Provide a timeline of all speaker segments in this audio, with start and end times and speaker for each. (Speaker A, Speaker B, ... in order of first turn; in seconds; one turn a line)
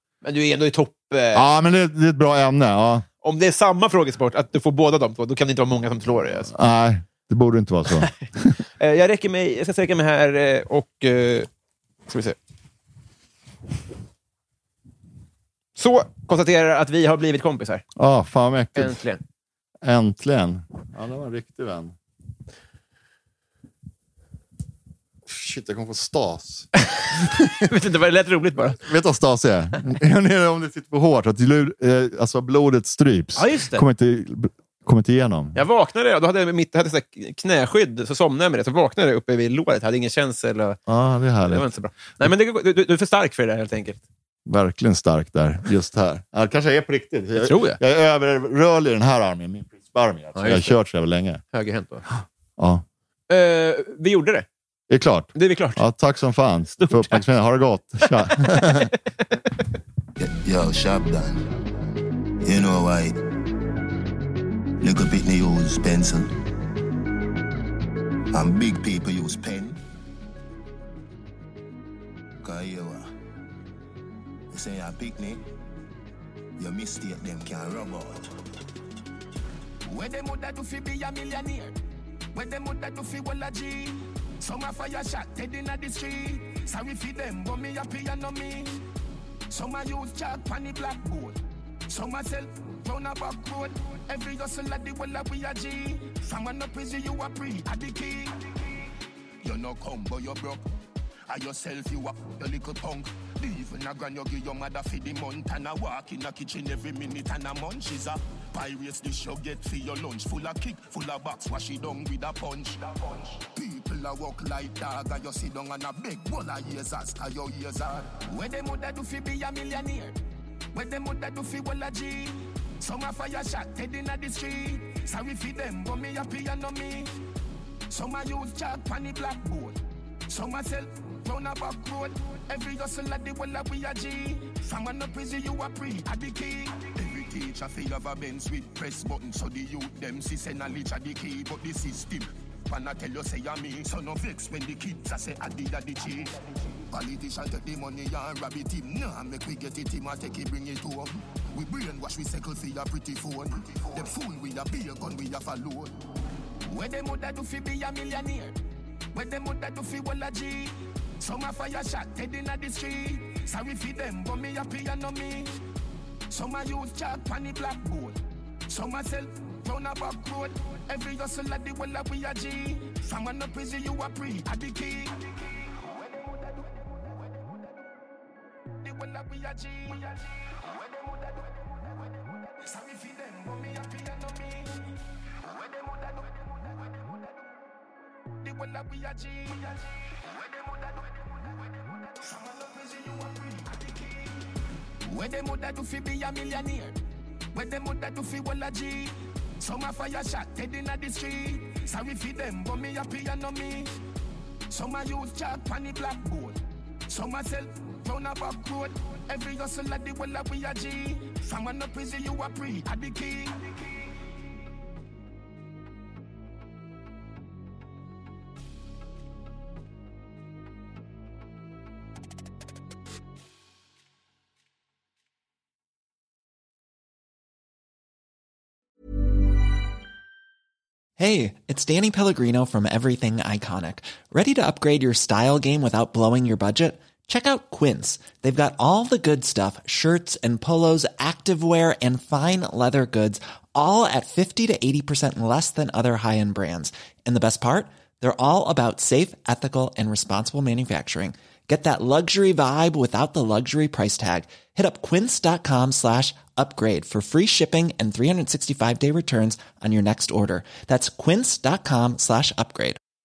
Speaker A: 0.2-1.4
Speaker B: 1.3-3.0
Speaker A: 3.2-6.5
Speaker B: 6.5-8.6
Speaker A: 8.8-11.5
Speaker A: 12.1-12.4
Speaker A: 15.8-17.8
Speaker B: 17.9-19.0
Speaker A: 18.7-19.2
Speaker B: 19.8-21.9
Speaker B: 25.2-27.6
Speaker A: 27.6-28.8
Speaker B: 28.8-35.5
Speaker A: 33.4-33.8
Speaker A: 35.5-40.8
Speaker B: 40.9-41.7
Speaker A: 41.4-44.0
Speaker B: 44.5-51.4
Speaker A: 47.4-47.8
Speaker A: 50.3-50.8
Speaker A: 51.5-52.0
Speaker B: 52.6-52.8
Speaker A: 53.3-54.5
Speaker B: 54.9-58.9
Speaker A: 55.3-55.8
Speaker A: 56.8-57.2
Speaker A: 58.0-59.4
Speaker C: 60.2-61.5
Speaker C: 62.4-63.1
Speaker C: 64.8-66.3
Speaker C: 68.3-69.8
Speaker C: 72.4-73.1
Speaker C: 74.5-75.4
Speaker C: 76.6-78.3
Speaker D: 79.8-81.8
Speaker D: 82.3-88.8
Speaker D: 89.5-98.9
Speaker D: 99.4-100.6
Speaker D: 101.3-120.2
Speaker D: 120.7-127.1
Speaker D: 127.9-155.9
Speaker D: 156.6-158.6
Speaker D: 159.1-165.5
Speaker D: 166.3-177.1
Speaker D: 178.8-181.9
Speaker D: 182.5-184.9
Speaker D: 185.4-187.1
Speaker D: 188.4-194.3
Speaker D: 195.0-197.0
Speaker D: 197.5-203.9
Speaker D: 204.7-213.8
Speaker E: 231.2-263.0